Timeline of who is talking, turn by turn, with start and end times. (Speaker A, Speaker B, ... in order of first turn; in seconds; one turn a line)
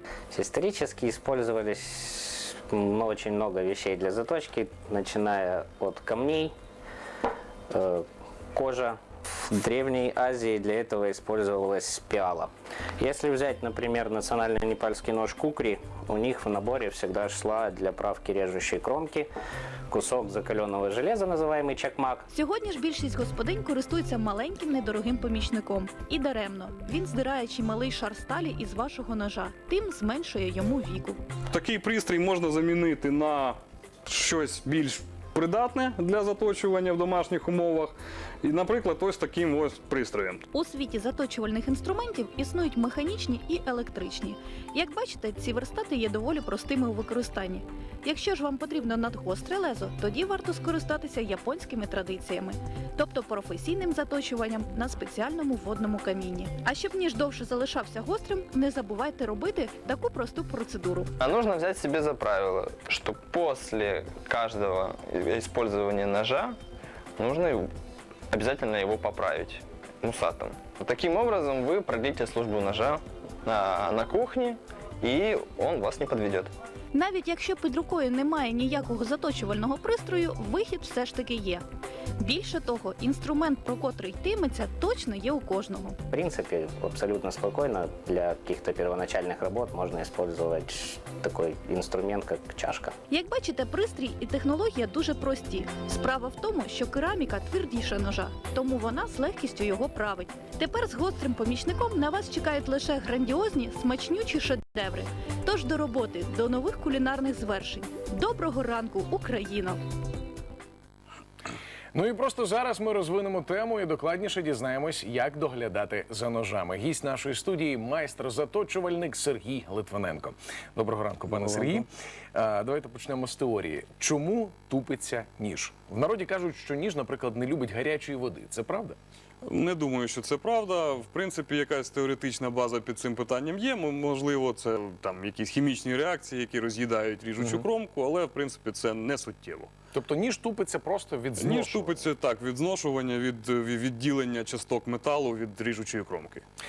Speaker A: 0.3-6.5
Speaker A: 7.7-19.3
Speaker A: 19.9-22.2
Speaker B: 22.3-31.2
Speaker C: 31.5-40.4
Speaker B: 40.5-61.1
Speaker D: 61.2-66.6
Speaker D: 67.2-67.7
Speaker D: 68.3-76.5
Speaker B: 76.9-81.6
Speaker B: 82.2-86.0
Speaker A: 86.1-92.9
Speaker B: 93.1-109.8
Speaker E: 111.9-129.0
Speaker C: 121.3-121.8
Speaker C: 129.4-139.7
Speaker E: 137.4-137.7
Speaker E: 139.9-142.1
Speaker C: 141.4-146.4